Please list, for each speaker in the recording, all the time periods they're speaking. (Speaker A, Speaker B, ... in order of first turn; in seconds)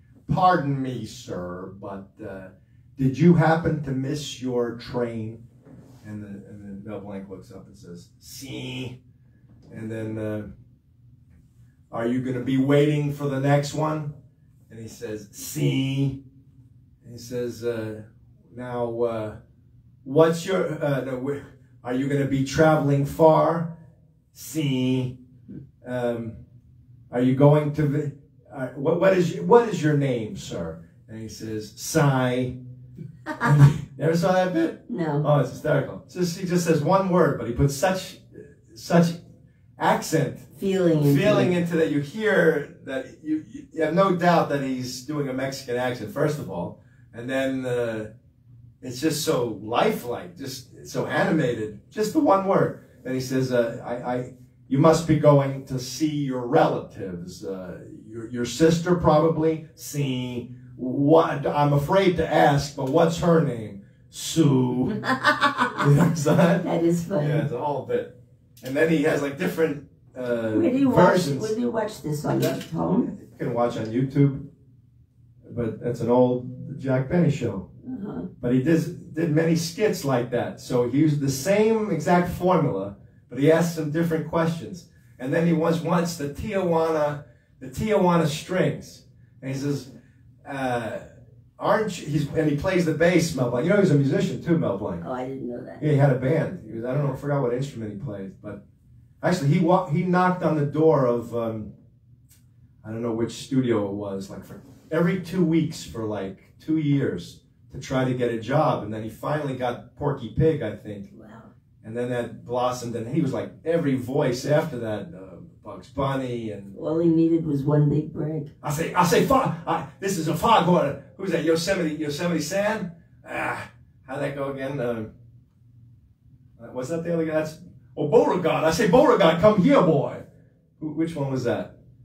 Speaker A: 0.3-5.4, 6.0-9.0, 9.7-10.5, 11.9-14.1, 14.7-16.2, 17.0-19.4, 20.0-23.7, 24.3-25.1, 25.8-26.4, 27.1-32.6, 33.4-39.2, 39.8-48.1, 48.8-65.0, 65.7-66.6, 67.2-71.5, 72.3-74.5, 75.4-77.7, 78.4-89.9, 90.4-91.0, 91.6-95.0, 95.8-98.6, 99.2-101.7, 102.8-111.1, 111.8-116.7, 118.6-125.1, 126.6-130.2, 130.8-131.7
Speaker B: 34.9-35.2, 40.5-41.5, 65.0-65.8, 66.6-67.5, 70.5-73.1, 77.8-78.3, 95.0-95.8, 111.1-111.5, 116.7-118.5